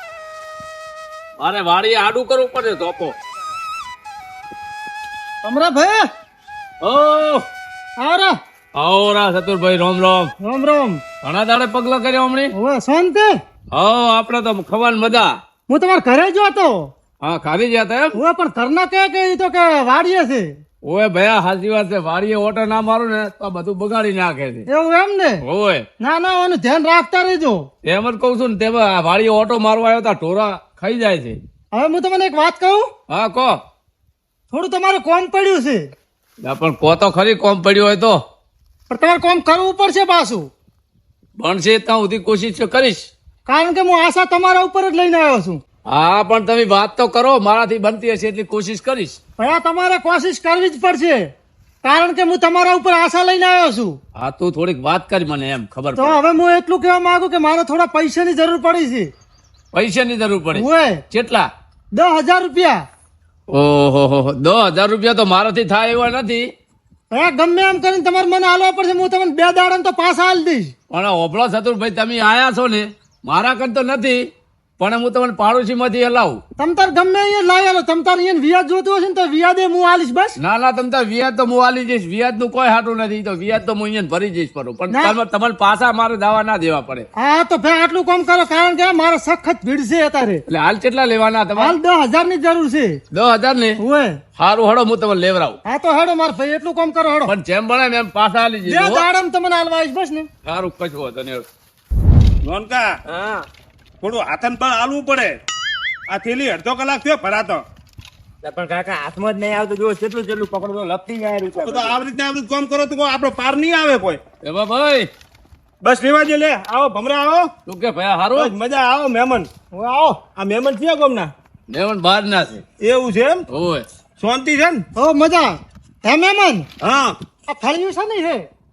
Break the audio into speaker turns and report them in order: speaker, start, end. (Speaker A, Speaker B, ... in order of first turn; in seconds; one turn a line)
Speaker A: 1.4-3.2
Speaker B: 5.4-6.1
Speaker A: 6.8-7.5
Speaker B: 8.0-8.4
Speaker A: 8.8-10.3
Speaker B: 10.4-11.0
Speaker A: 11.2-12.5
Speaker B: 12.5-13.3
Speaker A: 13.7-15.4
Speaker B: 15.7-16.9
Speaker A: 17.2-18.1
Speaker B: 18.1-20.6
Speaker A: 20.8-24.7
Speaker B: 24.7-25.4
Speaker A: 25.4-25.9
Speaker B: 26.0-27.7
Speaker A: 27.9-31.4
Speaker B: 31.7-32.9
Speaker A: 33.1-33.6
Speaker B: 34.5-35.9
Speaker A: 36.4-38.2
Speaker B: 38.9-40.5
Speaker A: 41.4-43.1
Speaker B: 43.5-45.6
Speaker A: 45.9-49.2
Speaker B: 49.4-51.3
Speaker B: 51.8-54.0
Speaker A: 54.2-56.2
Speaker B: 56.0-59.1
Speaker A: 59.7-61.5
Speaker B: 60.5-61.0
Speaker B: 61.9-62.8
Speaker A: 63.5-66.5
Speaker B: 67.1-70.7
Speaker A: 70.9-74.3
Speaker A: 74.8-76.4
Speaker B: 76.6-80.4
Speaker A: 80.4-87.1
Speaker B: 84.9-85.2
Speaker B: 87.2-90.4
Speaker A: 90.5-91.8
Speaker B: 91.6-93.0
Speaker A: 93.1-93.8
Speaker B: 93.8-94.2
Speaker A: 94.4-95.6
Speaker B: 95.7-97.3
Speaker A: 97.2-99.0
Speaker B: 98.6-100.3
Speaker A: 100.5-101.5
Speaker C: 102.4-102.9
Speaker D: 103.1-103.5
Speaker C: 104.0-105.4
Speaker C: 106.1-107.6
Speaker D: 108.4-112.0
Speaker C: 111.6-114.2
Speaker A: 114.4-115.1
Speaker C: 115.8-117.5
Speaker A: 117.7-118.5
Speaker C: 118.4-119.5
Speaker B: 119.7-120.2
Speaker C: 120.3-121.3
Speaker A: 121.7-122.6
Speaker C: 122.8-123.4
Speaker A: 123.5-123.8
Speaker C: 124.2-124.8
Speaker B: 125.0-126.7
Speaker C: 126.8-127.2
Speaker B: 127.5-128.5